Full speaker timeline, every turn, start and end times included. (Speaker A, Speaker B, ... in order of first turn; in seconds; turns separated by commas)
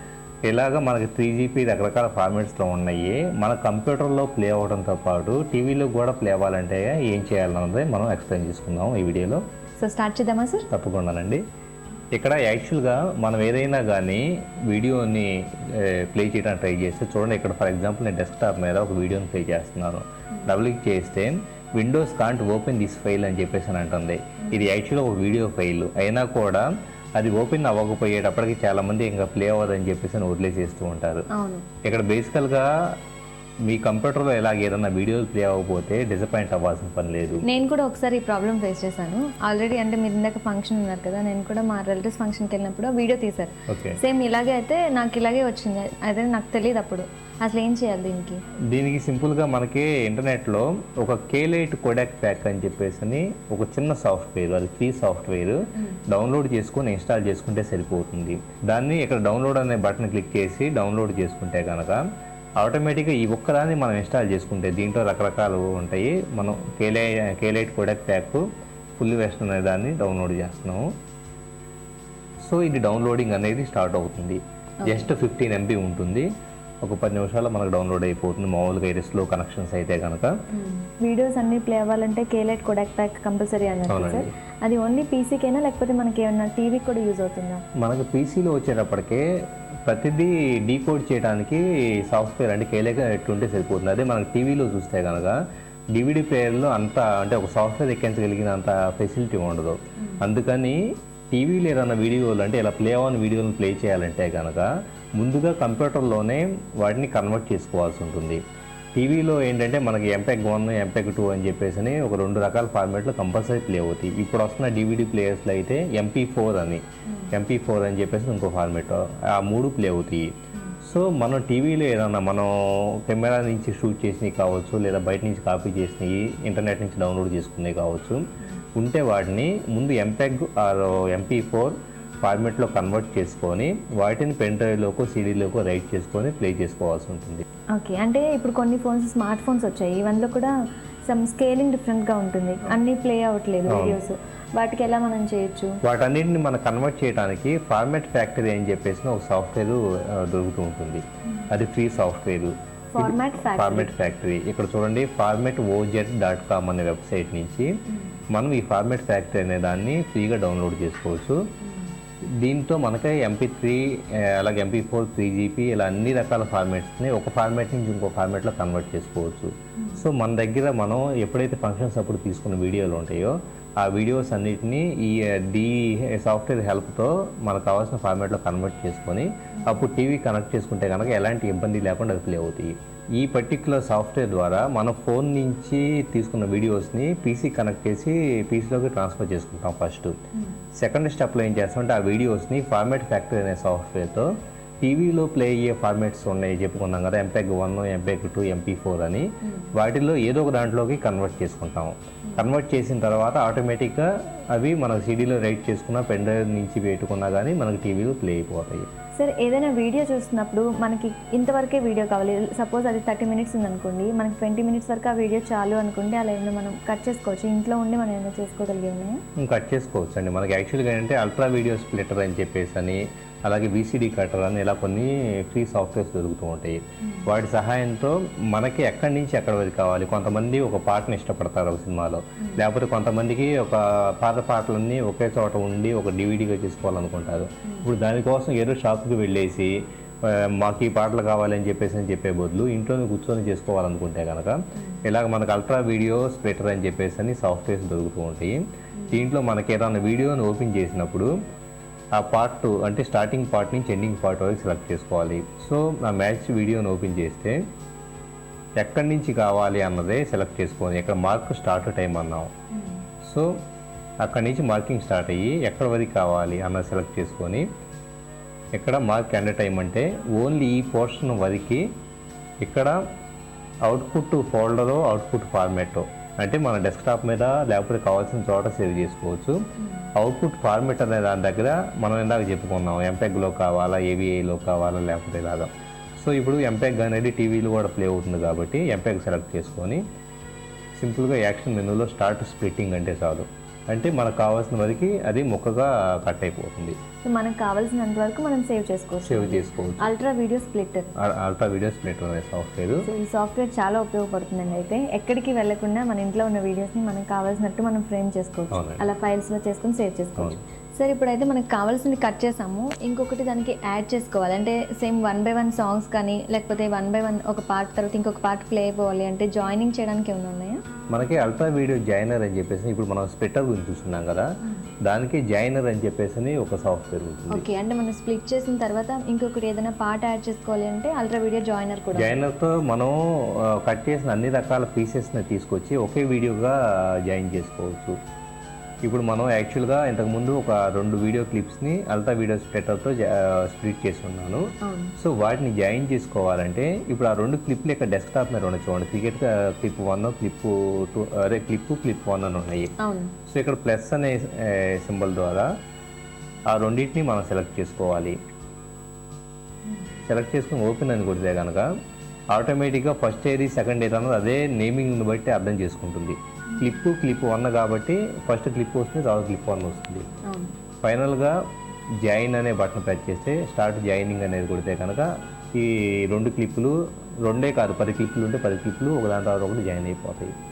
Speaker A: 0.5-9.4, Speaker B: 9.8-10.7, Speaker A: 10.7-11.4, Speaker A: 12.1-31.3, Speaker B: 31.3-31.6, Speaker A: 31.8-32.7, Speaker A: 33.7-37.4, Speaker B: 37.4-48.4, Speaker A: 43.7-44.0, Speaker A: 48.7-62.0, Speaker A: 62.6-68.4, Speaker A: 69.0-70.8, Speaker A: 72.4-76.3, Speaker B: 74.8-75.1, Speaker A: 76.8-80.3, Speaker B: 80.5-87.6, Speaker A: 83.9-84.3, Speaker A: 87.8-89.2, Speaker A: 89.8-95.3, Speaker A: 95.9-100.8, Speaker A: 101.3-108.4, Speaker A: 109.0-120.3, Speaker B: 117.1-117.3, Speaker A: 120.8-128.2, Speaker A: 128.7-137.4, Speaker B: 137.7-140.5, Speaker B: 141.1-145.8, Speaker A: 143.7-144.0, Speaker A: 145.8-157.7, Speaker B: 152.9-153.9, Speaker A: 158.3-161.4, Speaker B: 161.6-161.9, Speaker A: 162.4-190.2, Speaker B: 169.8-170.0, Speaker B: 179.6-179.8, Speaker A: 190.8-194.3, Speaker A: 194.8-208.9, Speaker B: 199.4-199.7, Speaker B: 209.1-219.2, Speaker A: 219.4-248.6, Speaker B: 244.8-245.0, Speaker B: 249.0-249.3, Speaker A: 249.1-251.3, Speaker A: 252.2-257.6, Speaker A: 258.8-262.5, Speaker B: 262.7-263.0, Speaker A: 263.2-263.5, Speaker A: 264.2-267.6, Speaker A: 268.7-271.8, Speaker A: 272.6-273.0, Speaker A: 273.8-279.6, Speaker A: 280.1-290.0, Speaker A: 290.9-297.0, Speaker B: 297.2-301.1, Speaker A: 299.2-300.1, Speaker A: 301.2-303.1, Speaker B: 303.0-320.8, Speaker A: 308.7-309.0, Speaker A: 321.1-324.4, Speaker A: 325.0-327.6, Speaker B: 327.5-332.4, Speaker A: 332.1-338.1, Speaker A: 339.0-352.9, Speaker B: 344.8-345.1, Speaker B: 353.0-353.3, Speaker A: 353.5-355.7, Speaker A: 356.7-358.3, Speaker A: 360.2-361.9, Speaker A: 362.5-370.3, Speaker B: 370.4-370.7, Speaker A: 371.0-371.6, Speaker A: 372.2-380.5